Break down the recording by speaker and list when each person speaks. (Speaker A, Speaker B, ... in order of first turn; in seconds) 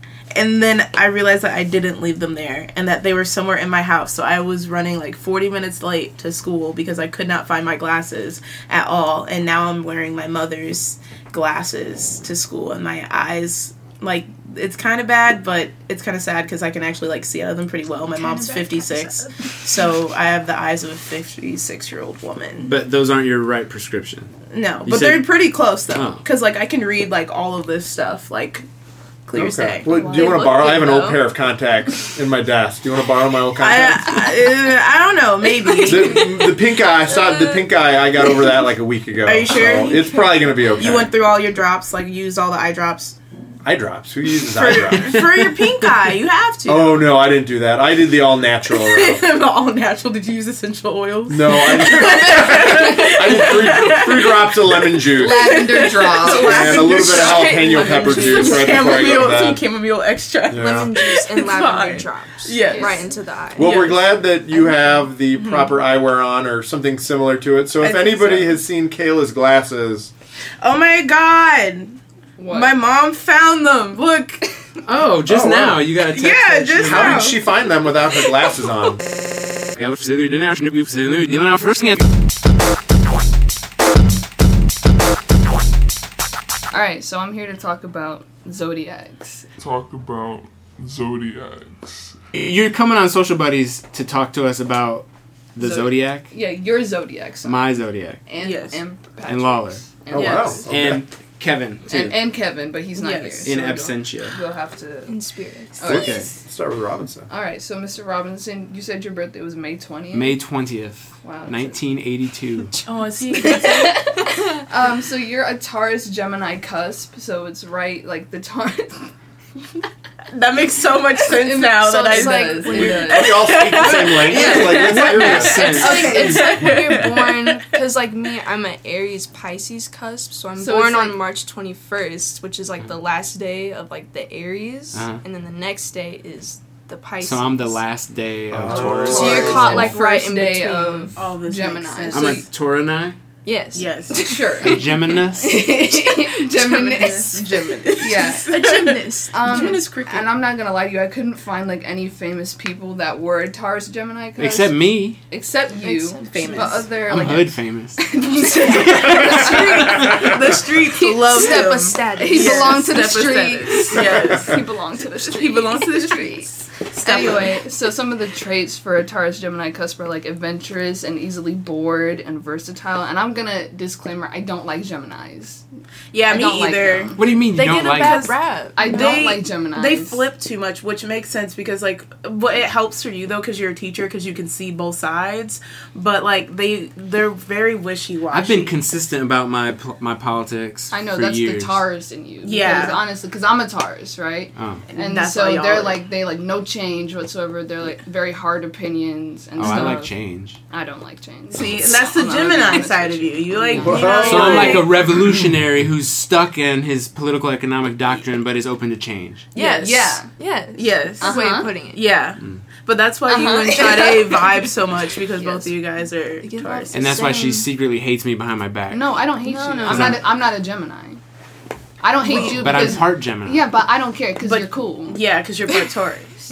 Speaker A: 0.3-22.7, 24.5-28.7, 29.2-31.2, 33.6-36.5, 39.2-43.2, 44.4-47.0, 48.7-63.0, 63.6-64.0, 65.3-65.7, 67.8-68.6, 70.6-74.4, 76.1-77.4, 98.4-98.8, 100.1-100.6, 103.0-103.5, 112.8-114.1, 120.3-127.8, 141.2-142.4, 143.7-144.4, 146.9-150.3, 156.3-156.9, 158.8-164.6, 165.2-167.6, 176.1-177.2, 177.8-188.8, 192.4-193.0, 194.9-196.0, 201.5-204.9, 209.6-210.2, 210.8-217.1, 222.2-223.0, 224.4-226.3
Speaker B: 18.1-19.3, 60.5-63.8, 105.1-105.8, 113.5-113.9, 122.0-123.2, 124.6-137.8, 139.1-141.1, 143.4-144.0, 146.5-147.2, 148.5-149.8, 155.8-156.8, 161.2-163.2, 177.5-179.3, 209.6-212.1, 215.4-215.8, 216.4-217.7, 219.4-220.2
Speaker C: 22.6-24.3, 24.8-26.2, 45.0-45.6, 74.8-77.3, 79.8-82.0, 92.3-96.3, 97.4-98.2, 99.2-99.8, 100.7-102.2, 103.5-104.4, 105.9-106.3, 110.1-112.7, 124.3-126.2, 134.9-135.2, 137.2-139.8, 142.1-143.2, 144.6-145.6, 154.4-155.2, 157.0-158.0, 177.2-178.3, 188.3-191.8, 194.6-194.8, 199.6-200.6, 204.2-209.4, 216.9-219.2, 219.9-220.2, 222.3-223.6
Speaker D: 29.3-34.2, 35.8-41.1, 43.6-45.3, 46.7-49.2, 51.3-59.6, 60.5-60.9, 63.5-70.1, 75.3-75.9, 76.8-79.0, 100.1-101.0, 105.9-107.3, 123.0-125.8, 138.5-139.9, 203.7-204.8
Speaker E: 29.9-30.8, 55.2-58.7, 62.6-63.0, 72.4-72.8, 86.7-89.5, 95.6-97.7, 98.3-100.7, 101.9-105.2, 105.8-106.2, 107.3-110.4, 111.2-111.8, 113.4-119.1, 121.2-123.9, 125.8-126.6, 130.6-131.2, 139.1-142.4, 144.1-148.7, 149.3-175.6, 176.3-177.2, 178.8-180.2, 190.9-200.1, 200.7-204.9, 209.8-210.3, 211.2-211.7, 213.3-214.4, 218.9-221.2, 222.0-225.2
Speaker F: 89.6-92.2